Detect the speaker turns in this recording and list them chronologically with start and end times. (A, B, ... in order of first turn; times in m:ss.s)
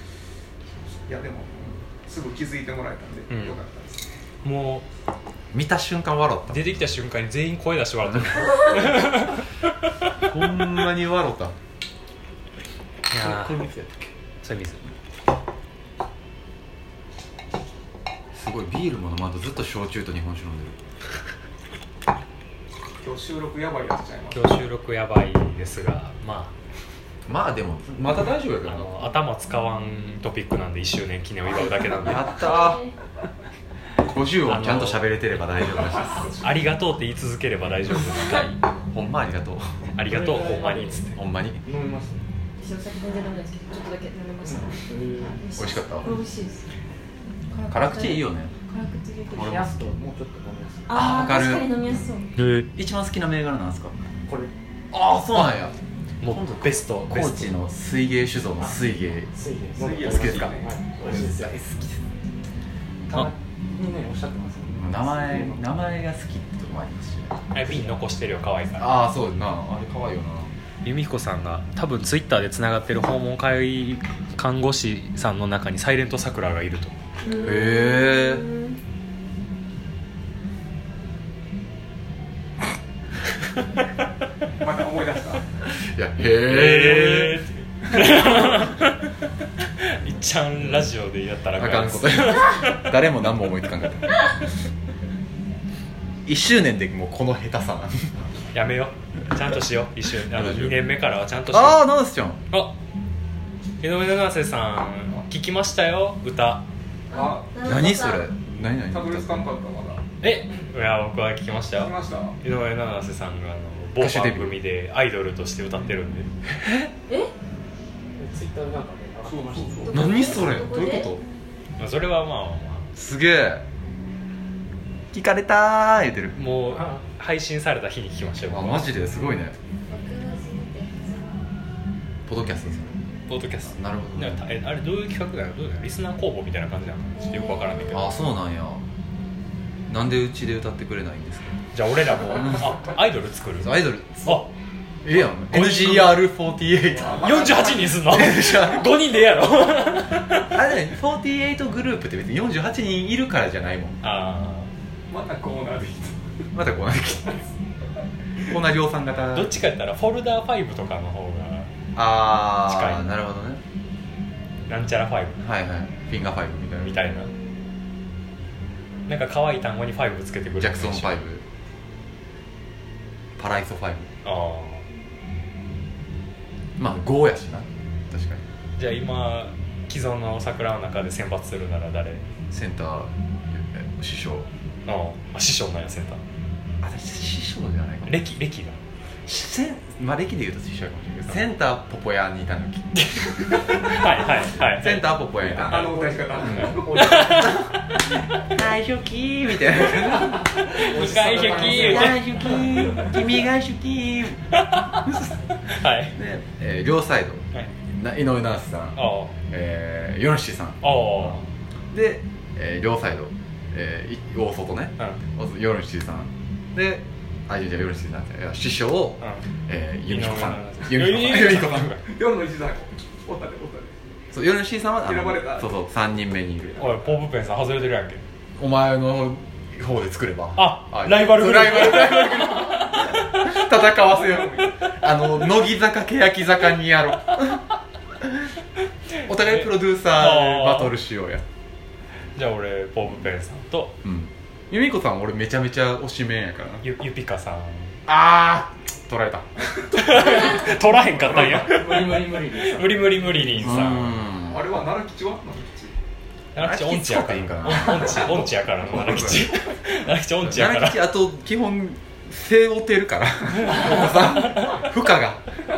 0:00.9-0:04.1 A
0:03.3-0:03.6 B
0:04.4-0:04.9 B
0:05.5-0:06.8 C
0:06.5-0:10.1 B
0:08.0-0:08.5 C
0:10.2-0:11.6 C
0:13.1-0:13.6 B
0:13.1-0:14.1 C
0:14.4-0:14.8 B
0:18.3-0:20.8 C
0:23.0-0:24.6 A
0:24.3-0:26.5 B
0:27.3-0:29.1 C
0:28.7-0:32.6 B
0:32.0-0:32.8 C
0:32.1-0:32.9 D
0:34.0-0:36.4 C
0:34.4-0:35.2 B
0:36.2-0:36.4 A
0:36.4-0:38.6 B
0:38.9-0:39.8 C
0:40.0-0:41.2 B
0:40.1-0:41.1 E
0:41.1-0:41.6 C
0:41.6-0:42.2 E
0:42.6-0:46.7 D
0:44.4-0:45.5 E
0:45.6-0:46.1 C
0:47.5-0:49.6 D
0:47.7-0:48.5 C
0:49.3-0:51.1 E
0:49.3-0:49.9 C
0:50.9-0:52.3 D
0:50.9-0:51.7 C
0:52.4-0:52.7 B
0:52.7-0:53.9 C
0:54.3-0:54.5 E
0:54.9-0:59.3 C
0:56.2-0:57.6 B
0:58.6-1:01.6 E
0:59.8-1:00.8 A
1:00.0-1:02.0 C
1:03.1-1:05.6 E
1:04.7-1:07.4 C
1:07.5-1:09.0 B
1:07.6-1:08.0 E
1:08.8-1:10.5 C
1:10.8-1:16.9 B
1:17.2-1:18.8 D
1:17.4-1:18.4 C
1:24.6-1:25.4 A
1:25.7-1:27.4 C
1:26.3-1:32.9 B
1:28.0-1:28.3 A
1:28.3-1:28.6 C
1:30.6-1:30.9 C
1:31.6-1:34.2 C
1:36.2-1:38.1 C
1:38.5-1:41.9 B
1:40.2-1:40.9 C
1:41.5-1:42.4 C
1:42.5-1:42.8 B
1:43.8-1:46.7 B
1:47.1-1:48.3 D
1:47.1-1:47.5 A
1:47.6-1:49.4 C
1:48.9-1:50.0 A
1:50.2-1:56.3 B
1:51.7-1:52.4 A
1:54.0-1:54.6 C
1:56.6-1:56.9 C
1:58.2-2:00.0 E
1:59.2-2:00.1 A
1:59.8-2:01.1 D
1:59.9-2:01.2 C
2:01.8-2:02.9 B
2:03.0-2:03.6 C
2:05.1-2:06.4 C
2:06.3-2:08.9 B
2:06.7-2:07.0 E
2:08.5-2:09.6 C
2:09.9-2:11.4 D
2:12.3-2:12.9 C
2:13.3-2:18.1 B
2:13.7-2:14.4 C
2:17.3-2:17.9 D
2:17.9-2:18.8 C
2:19.9-2:21.6 C
2:21.7-2:24.5 B
2:23.6-2:24.5 C
2:25.0-2:29.0 C
2:25.1-2:26.2 B
2:26.9-2:27.9 A
2:27.2-2:30.5 B
2:30.3-2:34.0 C
2:34.0-2:34.7 B
2:35.1-2:36.4 A
2:36.5-2:37.4 C
2:38.5-2:39.6 C
2:39.3-2:41.7 B
2:42.0-2:43.6 C
2:42.7-2:43.1 B
2:44.7-2:45.4 B
2:45.4-2:47.0 C
2:46.8-2:47.3 B
2:49.1-2:51.2 B
2:50.6-2:51.4 C
2:53.4-2:54.1 C
2:54.2-2:54.8 B
2:56.8-2:58.4 C
2:58.8-3:02.3 B
3:02.5-3:04.5 C
3:04.9-3:06.2 B
3:06.8-3:08.2 C
3:08.0-3:08.8 B
3:09.3-3:20.5 C
3:13.6-3:15.2 B
3:15.4-3:17.7 A
3:16.5-3:17.6 B
3:20.6-3:22.9 B
3:20.7-3:23.1 E
3:21.2-3:22.0 A
3:21.6-3:25.4 C
3:24.5-3:26.2 B
3:26.1-3:31.4 C
3:29.0-3:29.4 B
3:30.8-3:31.4 B
3:31.9-3:42.0 C
3:40.1-3:42.0 B
3:42.0-3:44.1 A
3:44.3-3:47.0 C
3:45.0-3:45.7 A
3:46.7-3:47.1 A
3:46.8-3:48.2 B
3:48.6-3:57.7 C
3:50.6-3:53.6 B
3:53.9-3:54.8 A
3:58.2-3:58.5 C
3:59.2-4:01.4 C
3:59.3-4:00.9 B
4:02.4-4:04.0 B
4:04.0-4:06.9 C
4:06.8-4:08.0 B
4:08.1-4:09.5 C
4:09.8-4:11.2 A
4:09.9-4:14.2 B
4:11.2-4:13.8 E
4:13.6-4:14.7 C
4:14.4-4:16.0 A
4:16.6-4:21.0 B
4:16.6-4:19.6 C
4:20.4-4:25.5 C
4:23.6-4:24.8 B